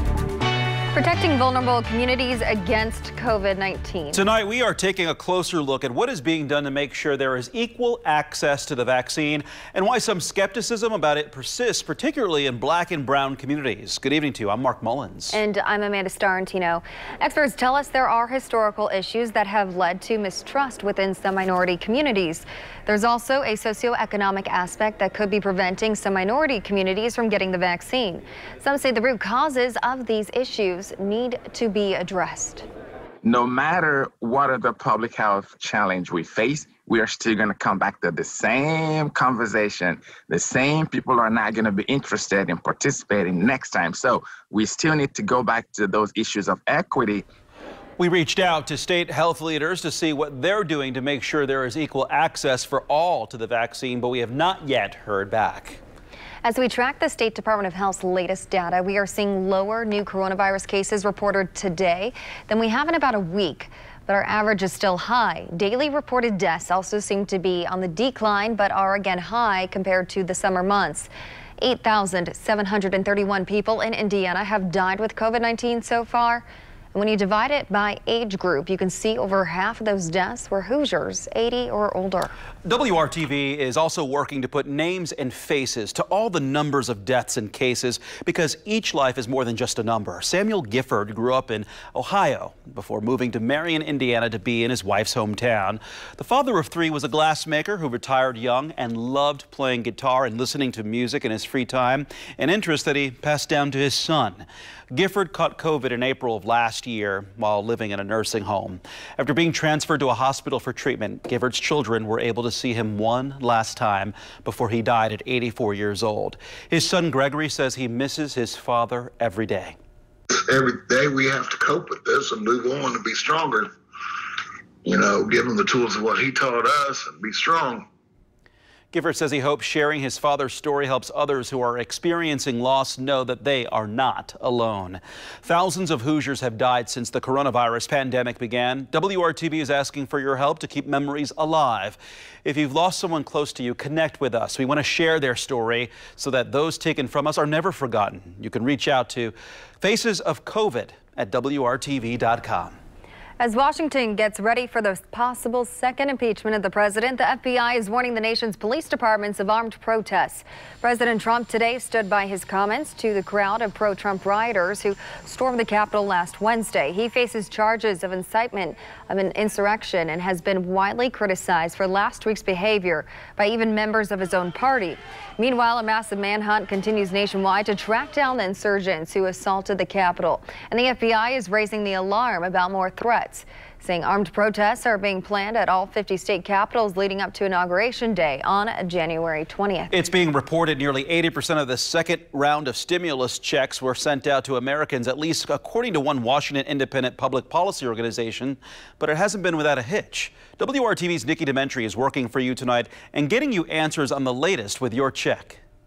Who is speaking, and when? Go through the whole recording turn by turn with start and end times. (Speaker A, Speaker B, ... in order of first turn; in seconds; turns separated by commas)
Speaker A: 0.9-4.2, Speaker B: 4.1-15.4, Speaker A: 15.3-32.7, Speaker C: 33.2-47.2, Speaker B: 48.0-55.8, Speaker A: 56.4-82.3, Speaker B: 82.7-119.8, Speaker D: 120.4-123.7, Speaker D: 124.8-127.9, Speaker B: 128.9-152.8, Speaker A: 153.4-189.9, Speaker B: 189.9-205.6